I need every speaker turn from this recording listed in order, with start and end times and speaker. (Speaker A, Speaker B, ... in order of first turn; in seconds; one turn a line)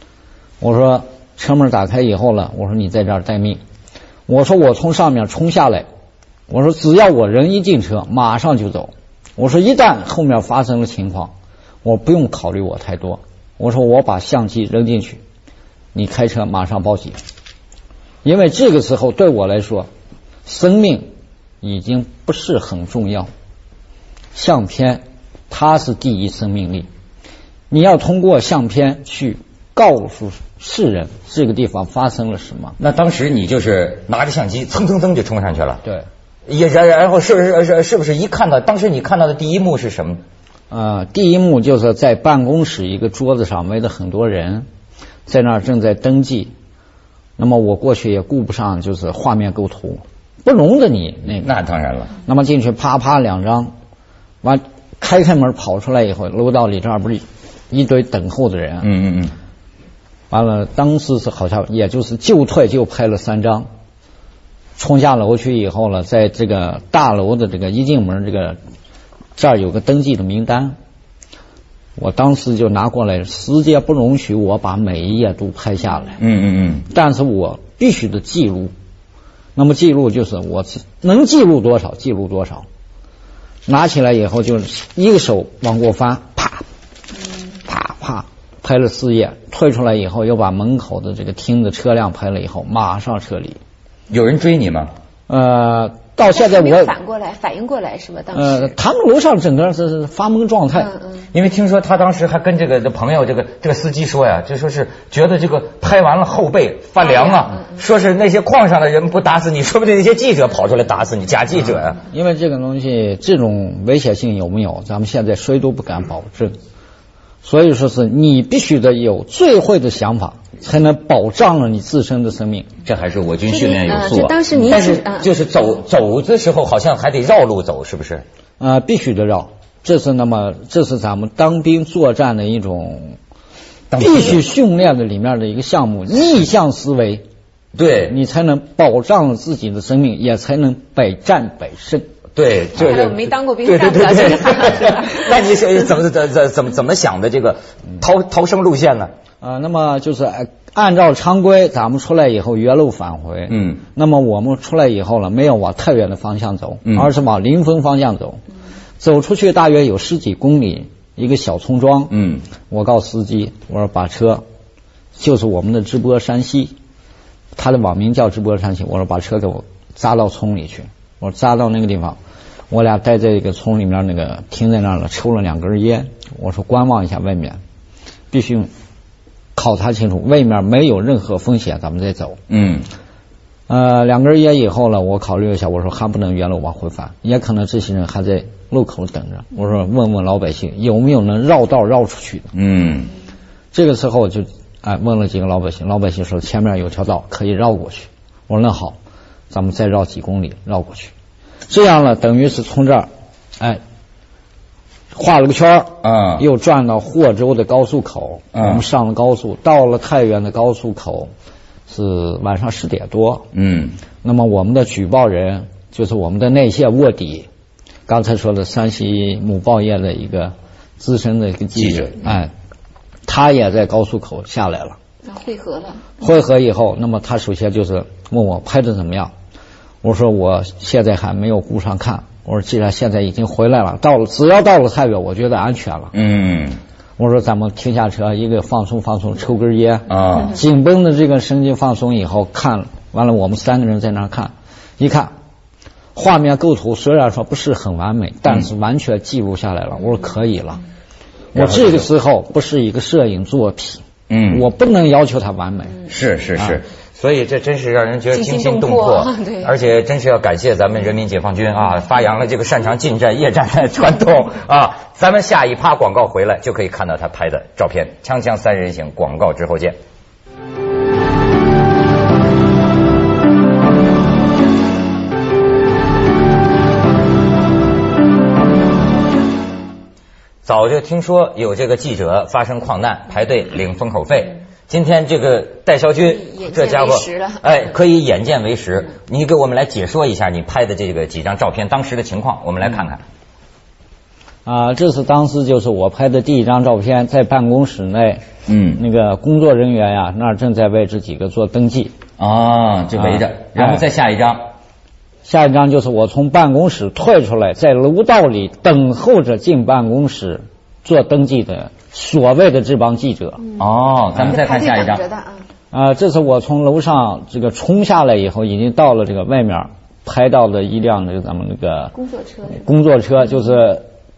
Speaker A: 0.6-3.6
Speaker A: 4.3-5.9
Speaker A: 6.5-15.2
Speaker A: 15.9-17.2
Speaker A: 18.2-19.9
Speaker A: 20.5-21.1
Speaker A: 21.6-23.3
Speaker A: 24.4-26.9
Speaker A: 27.7-32.8
Speaker B: 32.8-35.8
Speaker B: 36.5-40.2
Speaker A: 40.7-44.7
Speaker A: 45.3-46.5
Speaker A: 47.4-51.5
Speaker B: 51.3-52.1
Speaker A: 52.2-53.7
Speaker A: 54.4-58.9
Speaker B: 58.8-59.3
Speaker A: 60.3-63.7
Speaker A: 64.8-68.6
Speaker A: 69.4-70.8
Speaker A: 72.0-76.2
Speaker B: 76.2-76.9
Speaker A: 76.9-78.7
Speaker A: 79.6-82.7
Speaker A: 83.7-86.7
Speaker A: 87.7-93.6
Speaker B: 94.1-94.9
Speaker A: 95.3-96.9
Speaker C: 96.3-98.7
Speaker A: 98.3-100.9
Speaker C: 100.8-101.2
Speaker B: 101.3-112.0
Speaker C: 107.0-107.6
Speaker A: 111.5-116.5
Speaker A: 117.4-122.7
Speaker B: 122.8-128.2
Speaker C: 123.5-125.3
Speaker A: 128.6-133.2
Speaker B: 133.9-134.4
Speaker A: 134.0-137.2
Speaker B: 137.8-138.2
Speaker A: 138.1-142.1
Speaker B: 142.4-149.1
Speaker C: 142.8-145.3
Speaker A: 149.4-158.4
Speaker B: 153.5-153.8
Speaker A: 159.0-162.1
Speaker B: 162.1-162.4
Speaker A: 162.7-164.4
Speaker A: 165.2-166.7
Speaker A: 167.6-172.2
Speaker A: 172.7-177.6
Speaker A: 178.3-178.7
Speaker A: 179.6-182.4
Speaker B: 182.5-182.9
Speaker A: 183.7-192.5
Speaker B: 192.5-193.1
Speaker A: 193.7-199.0
Speaker A: 199.5-201.1
Speaker A: 201.7-203.8
Speaker A: 205.1-211.3
Speaker B: 206.0-206.4
Speaker B: 208.5-208.8
Speaker A: 211.9-213.5
Speaker B: 213.5-214.0
Speaker A: 214.2-217.5
Speaker A: 218.1-222.5
Speaker B: 221.8-222.2
Speaker A: 223.3-225.0
Speaker C: 225.2-226.1
Speaker A: 226.2-229.3
Speaker A: 230.0-236.1
Speaker B: 236.1-236.8
Speaker A: 237.2-245.3
Speaker B: 240.1-240.6
Speaker A: 246.2-250.8
Speaker A: 251.5-256.0
Speaker B: 251.6-252.1
Speaker B: 254.3-254.7
Speaker B: 256.1-270.0
Speaker C: 258.3-259.7
Speaker B: 280.6-293.2
Speaker C: 286.2-287.6
Speaker A: 294.6-302.1
Speaker B: 298.7-299.0
Speaker B: 302.4-304.6
Speaker A: 303.2-304.1
Speaker A: 305.4-313.6
Speaker B: 313.8-315.2
Speaker C: 314.4-315.6
Speaker A: 315.9-322.1
Speaker C: 322.1-322.8
Speaker A: 322.7-324.1